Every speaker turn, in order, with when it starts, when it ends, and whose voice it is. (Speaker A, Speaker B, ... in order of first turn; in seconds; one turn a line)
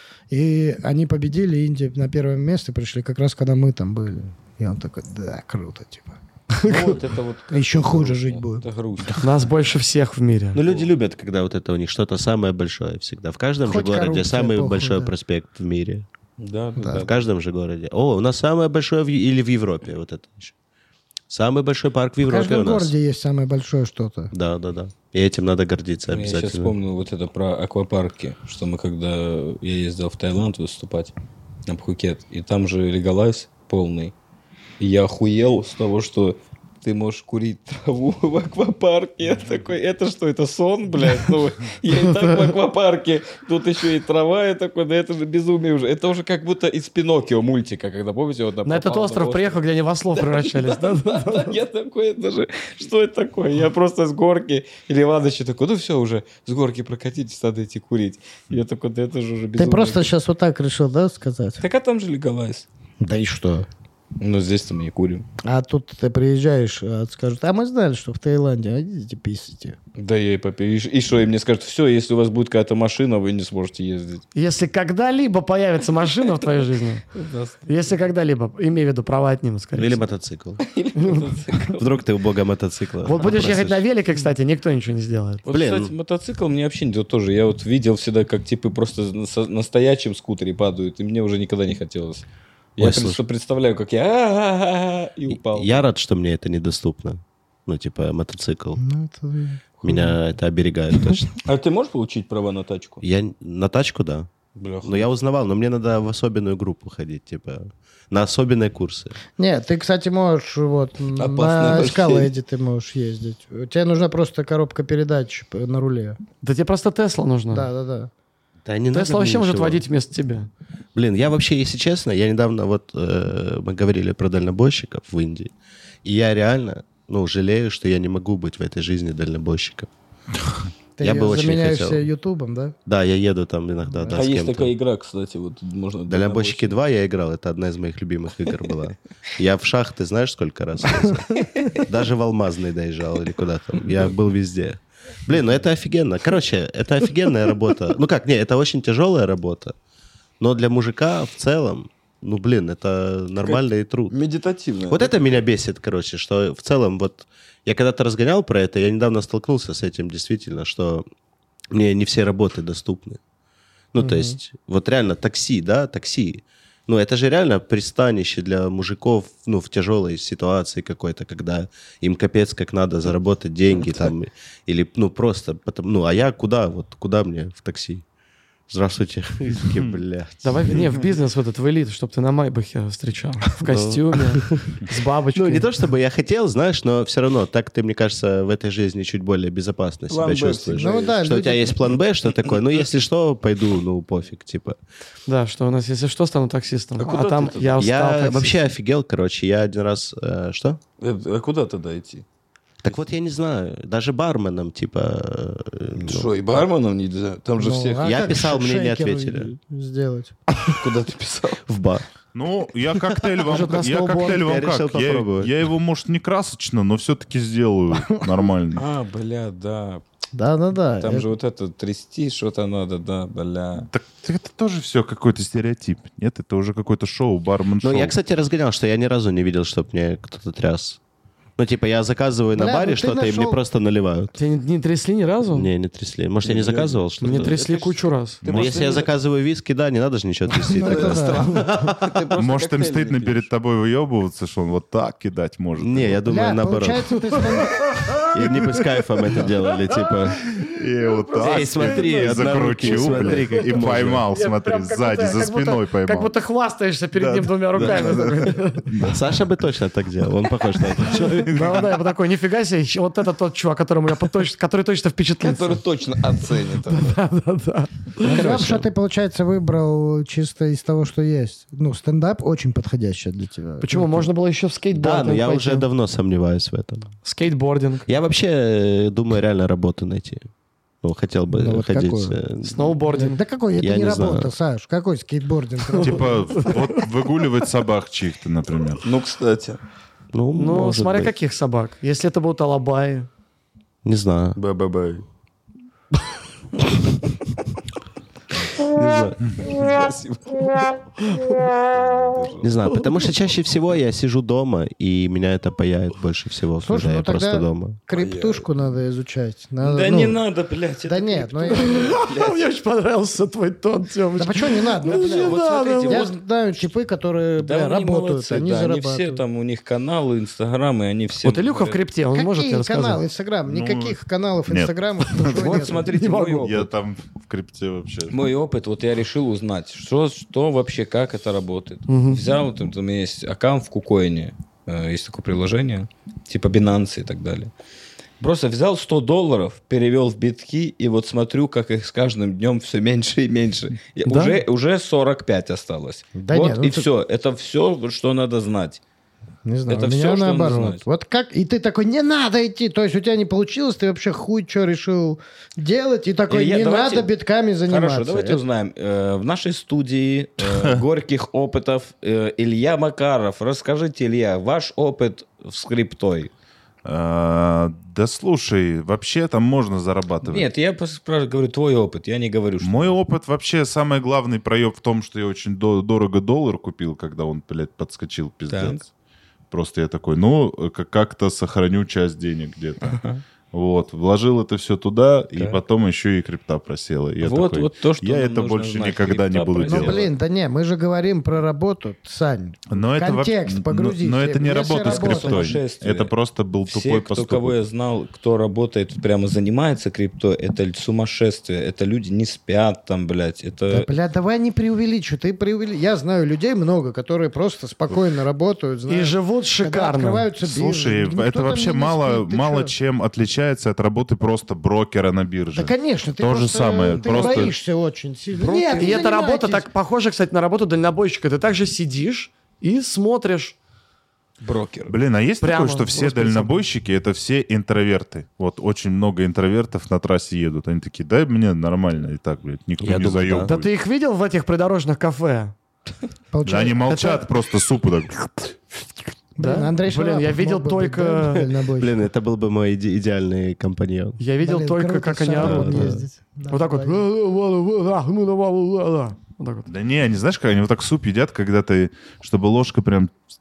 Speaker A: 0.3-8.6
Speaker B: 6.6-9.5
Speaker C: 9.2-10.6
Speaker D: 10.5-16.1
Speaker B: 10.6-10.9
Speaker A: 13.6-15.1
Speaker B: 16.4-17.1
Speaker A: 16.8-17.0
Speaker D: 16.9-20.5
Speaker D: 21.3-22.9
Speaker A: 22.2-24.3
Speaker D: 24.3-26.8
Speaker B: 26.1-31.1
Speaker B: 31.7-34.1
Speaker B: 34.8-49.6
Speaker C: 48.6-51.5
Speaker B: 50.1-60.1
Speaker A: 59.6-61.6
Speaker B: 61.6-62.7
Speaker A: 63.0-63.7
Speaker B: 64.2-65.3
Speaker A: 65.4-69.8
Speaker B: 70.0-74.2
Speaker C: 74.3-77.0
Speaker B: 76.2-76.5
Speaker B: 77.2-77.9
Speaker C: 77.7-80.0
Speaker D: 79.7-80.6
Speaker B: 80.6-82.0
Speaker C: 81.0-81.3
Speaker D: 81.7-83.8
Speaker C: 83.0-85.5
Speaker B: 85.5-92.3
Speaker D: 85.5-85.9
Speaker B: 92.8-95.8
Speaker D: 92.8-93.2
Speaker D: 95.3-98.8
Speaker A: 98.8-100.2
Speaker D: 99.8-101.3
Speaker B: 101.4-103.0
Speaker D: 103.0-104.3
Speaker B: 104.6-105.1
Speaker D: 104.8-109.2
Speaker A: 109.4-116.2
Speaker B: 111.2-112.3
Speaker C: 116.4-117.7
Speaker A: 117.5-118.1
Speaker D: 118.7-119.8
Speaker C: 118.9-120.5
Speaker D: 120.9-125.5
Speaker D: 126.0-129.9
Speaker A: 131.0-132.8
Speaker D: 131.0-132.1
Speaker D: 132.9-134.7
Speaker A: 133.9-134.2
Speaker B: 134.1-136.8
Speaker D: 136.1-149.7
Speaker D: 150.4-154.1
Speaker B: 153.4-155.2
Speaker D: 154.9-161.1
Speaker D: 161.7-163.2
Speaker D: 163.9-178.0
Speaker D: 178.7-180.8
Speaker C: 180.4-185.7
Speaker D: 183.7-194.8
Speaker B: 190.1-191.1
Speaker A: 190.8-191.8
Speaker C: 195.3-198.6
Speaker B: 197.0-197.8
Speaker D: 197.8-200.8
Speaker B: 201.0-202.2
Speaker D: 202.8-206.3
Speaker B: 206.0-208.1
Speaker A: 207.6-210.3
Speaker D: 208.0-209.5
Speaker B: 210.6-211.6
Speaker D: 211.6-212.0
Speaker E: 212.3-218.8
Speaker C: 213.4-214.4
Speaker D: 214.3-215.5
Speaker B: 218.8-220.0
Speaker A: 220.3-221.3
Speaker B: 221.0-223.9
Speaker E: 223.9-228.2
Speaker D: 227.8-231.0
Speaker D: 231.6-234.4
Speaker A: 232.5-233.6
Speaker C: 234.4-235.7
Speaker D: 235.5-237.6
Speaker B: 236.4-239.1
Speaker C: 237.2-238.4
Speaker D: 238.4-242.2
Speaker E: 238.5-238.8
Speaker A: 240.7-241.6
Speaker B: 240.7-243.5
Speaker E: 242.4-246.2
Speaker D: 245.8-247.2
Speaker A: 246.3-247.9
Speaker C: 247.6-248.3
Speaker D: 248.2-250.4
Speaker E: 250.6-256.4
Speaker C: 251.0-258.9
Speaker D: 251.4-254.3
Speaker E: 257.1-259.2
Speaker D: 259.0-261.5
Speaker E: 260.8-261.9
Speaker C: 261.5-265.8
Speaker B: 265.4-267.2
Speaker C: 266.9-268.4
Speaker D: 268.2-268.9
Speaker A: 268.2-274.3
Speaker C: 273.8-275.9
Speaker D: 274.9-277.1
Speaker C: 277.2-278.1
Speaker D: 278.1-280.5
Speaker D: 281.0-283.0
Speaker A: 281.5-282.4
Speaker C: 282.6-283.4
Speaker A: 283.1-286.8
Speaker D: 283.8-284.5
Speaker C: 285.9-287.0
Speaker E: 286.0-289.0
Speaker B: 289.0-289.8
Speaker D: 290.3-291.3
Speaker C: 290.6-293.3
Speaker D: 294.0-294.6
Speaker B: 294.6-295.2
Speaker D: 298.8-299.4
Speaker B: 299.6-303.0
Speaker D: 302.6-308.0
Speaker A: 306.8-310.4
Speaker B: 308.1-308.7
Speaker B: 309.8-312.6
Speaker A: 311.1-312.2
Speaker C: 311.7-316.3
Speaker A: 314.4-319.4
Speaker B: 315.0-316.4
Speaker B: 317.6-322.1
Speaker C: 321.4-323.2
Speaker A: 322.3-326.1
Speaker E: 323.7-325.8
Speaker B: 325.5-326.9
Speaker C: 325.5-326.8
Speaker E: 326.6-328.4
Speaker B: 328.3-337.7
Speaker C: 332.1-332.4
Speaker B: 338.4-349.0
Speaker C: 344.3-344.6
Speaker A: 346.4-347.1
Speaker A: 349.6-358.6
Speaker B: 349.9-351.0
Speaker B: 356.5-357.3
Speaker B: 357.9-366.5
Speaker E: 360.6-361.0
Speaker E: 367.0-370.7
Speaker B: 370.4-373.2
Speaker E: 372.8-379.0
Speaker B: 378.7-379.0
Speaker E: 379.7-383.2
Speaker B: 383.0-383.4
Speaker E: 383.7-390.2
Speaker B: 385.6-385.8
Speaker B: 387.4-390.3
Speaker A: 389.8-395.8
Speaker E: 392.9-397.8
Speaker B: 395.0-396.3
Speaker B: 396.9-404.1
Speaker A: 403.9-412.9
Speaker C: 409.1-410.5
Speaker E: 410.6-417.7
Speaker A: 415.8-419.9
Speaker B: 417.2-417.7
Speaker C: 417.3-417.6
Speaker B: 418.6-419.2
Speaker C: 418.9-423.8
Speaker B: 424.6-425.1
Speaker E: 425.1-433.9
Speaker C: 425.6-426.8
Speaker D: 433.0-433.7
Speaker C: 433.6-435.7
Speaker A: 436.5-437.4
Speaker E: 436.6-438.5
Speaker A: 439.6-442.2
Speaker C: 439.6-441.7
Speaker D: 442.0-444.4
Speaker C: 444.4-449.9
Speaker A: 444.6-447.2
Speaker D: 445.6-446.2
Speaker E: 449.9-453.4